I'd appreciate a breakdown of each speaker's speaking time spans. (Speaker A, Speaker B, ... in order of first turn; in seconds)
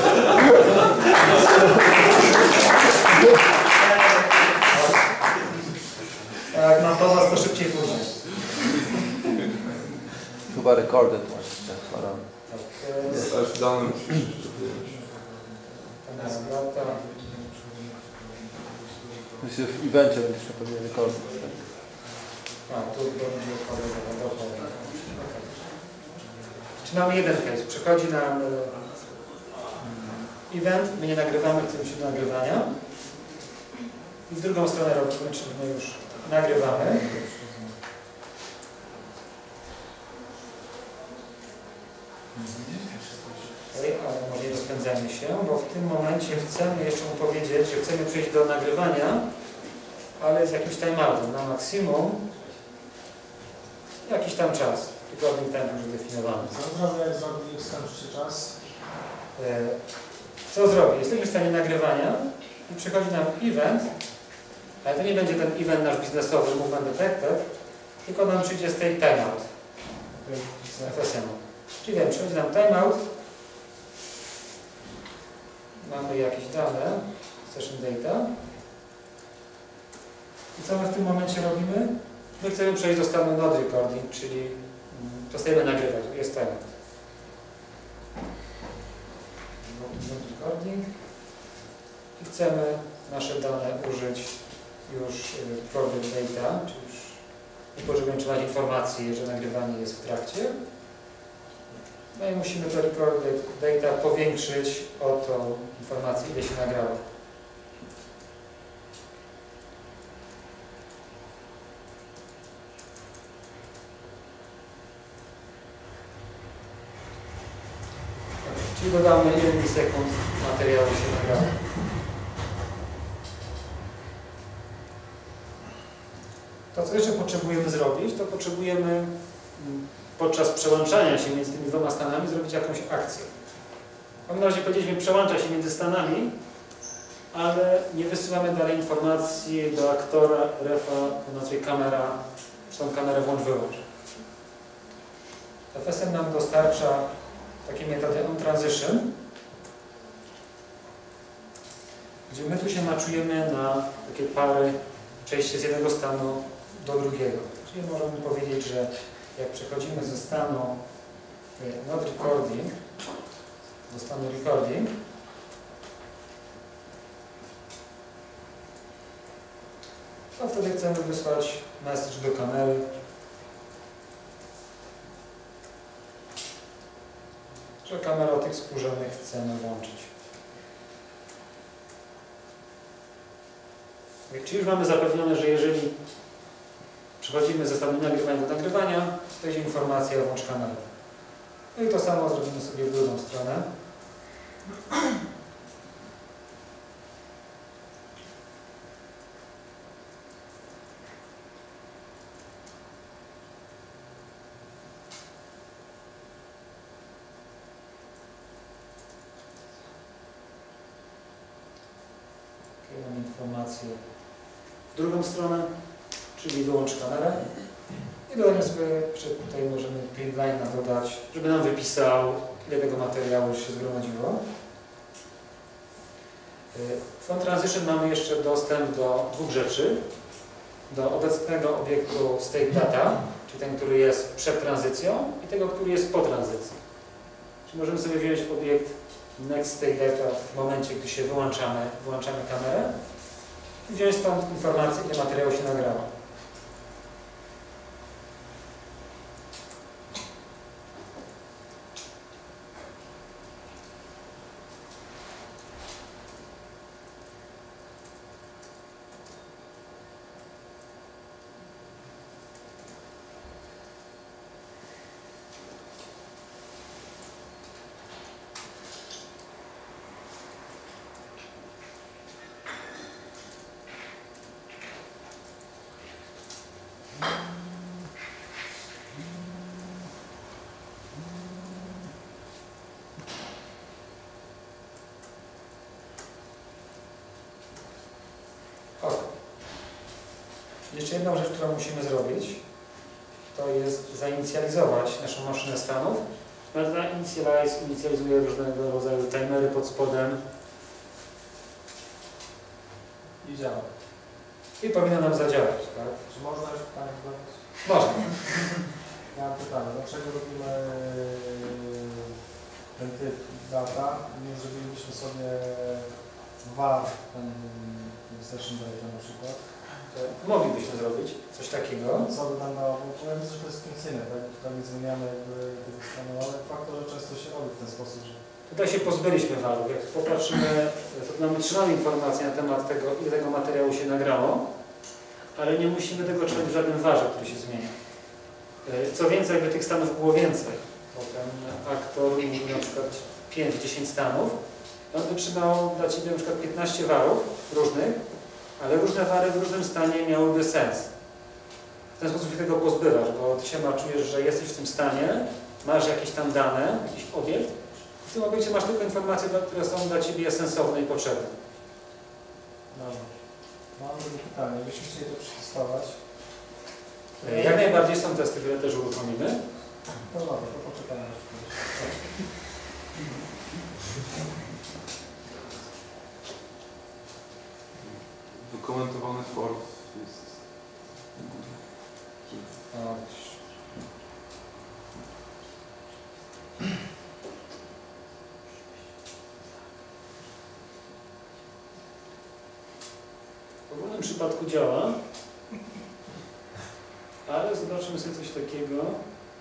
Speaker A: 4.7-5.0, 6.5-8.2, 12.5-13.3, 16.0-17.0, 22.7-25.6, 26.8-28.8, 29.8-32.7, 34.3-37.1, 43.7-49.3, 50.2-52.2, 54.0-56.6, 59.4-59.8, 60.5-63.9, 64.8-67.5, 68.0-69.5, 70.8-73.0, 75.8-78.3, 80.5-86.6, 89.6-90.9, 92.2-97.2, 97.7-100.5, 102.1-107.0, 118.4-121.6, 126.7-133.3, 134.3-136.3, 137.3-143.8, 145.7-147.1, 147.6-149.1, 152.3-160.8, 161.6-162.8, 163.9-164.9, 170.4-172.9, 177.8-180.1, 184.3-185.9, 187.2-190.9, 191.7-193.7, 212.8-214.0, 214.9-215.7, 216.3-224.4, 226.7-230.0, 230.9-236.8, 237.7-242.9, 243.8-246.1, 289.0-289.3, 290.9-292.6, 293.5-300.4, 304.8-306.2, 307.8-308.6, 320.1-322.3, 328.7-334.7, 335.6-337.9, 338.8-344.6, 345.1-348.2, 348.8-351.1, 352.2-361.6, 367.4-369.7, 371.9-372.3, 382.9-383.6, 393.9-395.2, 397.4-399.2
Speaker B: 10.1-10.5, 13.1-19.7, 21.9-22.6, 36.6-37.8, 42.4-43.4, 56.4-58.6, 70.1-71.0, 303.4-303.9, 306.3-307.8, 309.3-312.2, 312.9-319.8, 322.2-328.4, 362.9-366.2, 367.4-367.8, 370.2-371.8
Speaker C: 10.5-12.3, 19.4-21.6
Speaker D: 13.1-14.9, 378.0-382.8